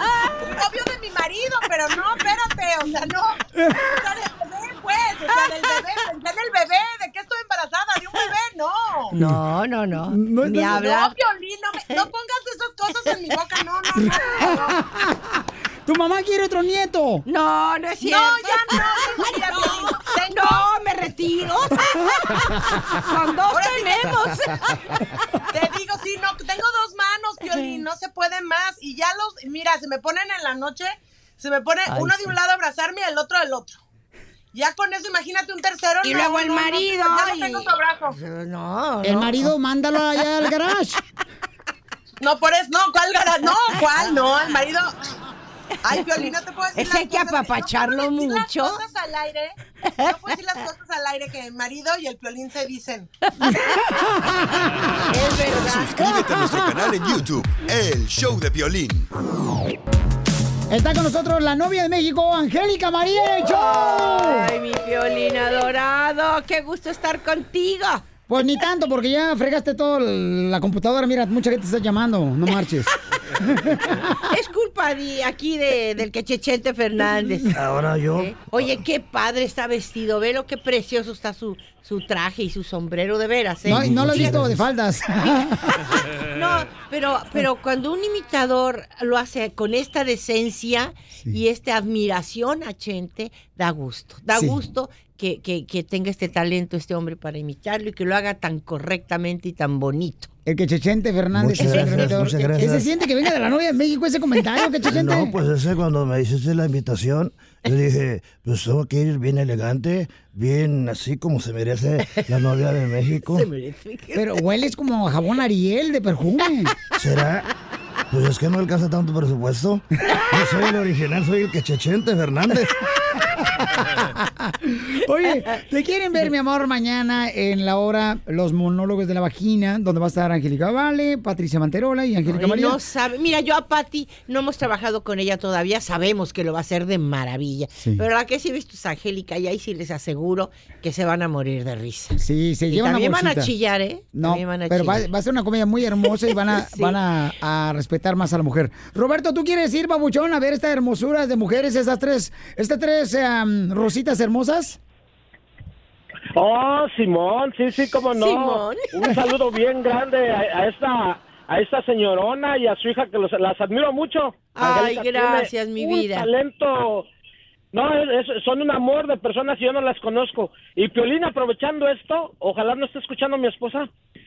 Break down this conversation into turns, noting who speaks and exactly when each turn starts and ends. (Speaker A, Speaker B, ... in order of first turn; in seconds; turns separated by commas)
Speaker A: 0.4-9.1, Speaker B: 9.1-9.4, Speaker C: 9.1-11.2, Speaker B: 10.1-10.9, Speaker A: 10.7-14.8, Speaker B: 14.5-17.2, Speaker C: 17.3-24.8, Speaker A: 18.0-20.7, Speaker A: 23.5-24.4, Speaker A: 25.5-33.8, Speaker C: 27.5-27.8, Speaker C: 31.9-32.3, Speaker A: 34.5-38.2, Speaker C: 36.0-39.5, Speaker B: 39.0-41.0, Speaker A: 42.2-45.0, Speaker C: 43.7-44.5, Speaker A: 45.9-53.1, Speaker C: 45.9-48.8, Speaker C: 49.9-50.6, Speaker C: 53.4-53.8, Speaker C: 55.1-56.2, Speaker D: 55.6-59.1, Speaker B: 60.7-64.5, Speaker C: 63.4-68.1, Speaker B: 68.3-74.2, Speaker C: 74.3-100.3, Speaker E: 77.5-78.3, Speaker B: 83.7-85.9, Speaker E: 83.7-84.6, Speaker B: 94.3-94.6, Speaker B: 100.5-105.4, Speaker E: 101.3-102.9, Speaker C: 101.6-102.5, Speaker E: 104.8-113.5, Speaker C: 112.0-112.4, Speaker C: 113.2-114.4, Speaker B: 114.2-116.8, Speaker E: 117.0-117.5, Speaker E: 118.1-122.7, Speaker B: 123.3-132.8, Speaker C: 132.3-145.1, Speaker B: 137.8-138.1, Speaker B: 142.2-143.5, Speaker B: 144.1-154.8, Speaker C: 146.3-147.0, Speaker F: 156.4-167.1, Speaker C: 158.1-159.1, Speaker C: 164.6-166.3, Speaker F: 167.7-173.9